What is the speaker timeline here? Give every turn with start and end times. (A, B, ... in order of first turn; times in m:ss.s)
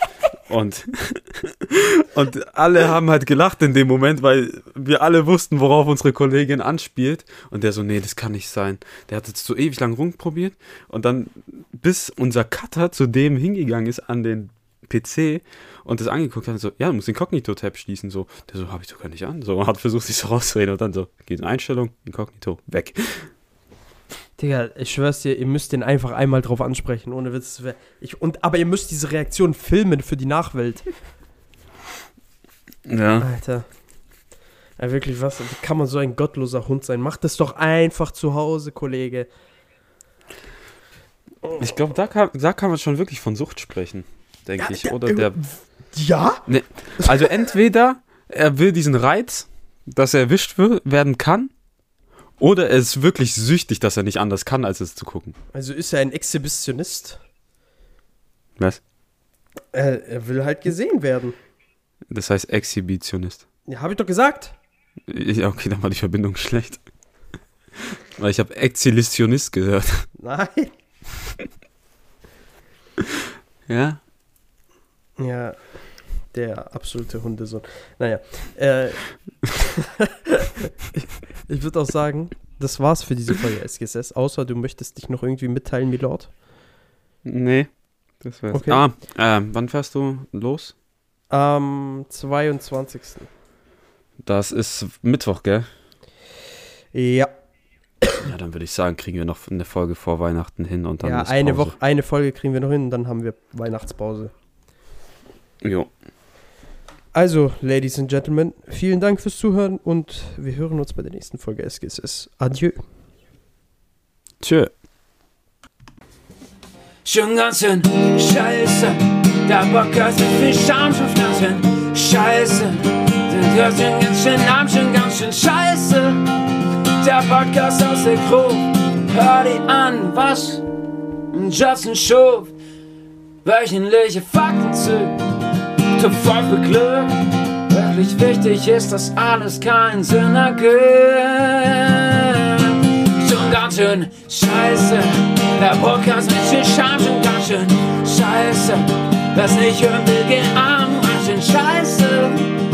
0:00.5-0:23.3 A
0:24.4-0:30.9 B
0:32.8-0:33.3 A
0:33.2-0:33.7 B
0:34.8-0:39.3 B
0:41.6-0:45.4 A
0:44.6-0:46.5 B
0:46.5-0:51.5 A
0:52.4-0:55.4 A
0:55.5-0:57.2 B
0:59.7-1:01.4 B
1:02.1-1:03.4 A
1:03.7-1:04.6 B
1:05.1-1:06.8 A
1:08.2-1:10.1 A
1:10.2-1:10.7 B
1:13.7-1:14.0 A
1:15.2-1:15.6 B
1:16.3-1:26.3 B
1:27.2-1:30.7 A
1:28.5-1:28.8 B
1:31.3-1:33.3 B
1:34.2-1:35.7 A
1:36.9-1:37.3 B
1:38.2-1:41.7 A
1:41.0-1:44.3 B
1:45.6-1:45.9 A
1:47.2-1:52.8 B
1:54.4-1:54.7 A
1:57.0-2:06.3 C
2:07.0-2:10.6 C
2:11.3-2:12.5 C
2:13.4-2:15.2 C
2:16.0-2:17.2 C
2:17.7-2:32.5 C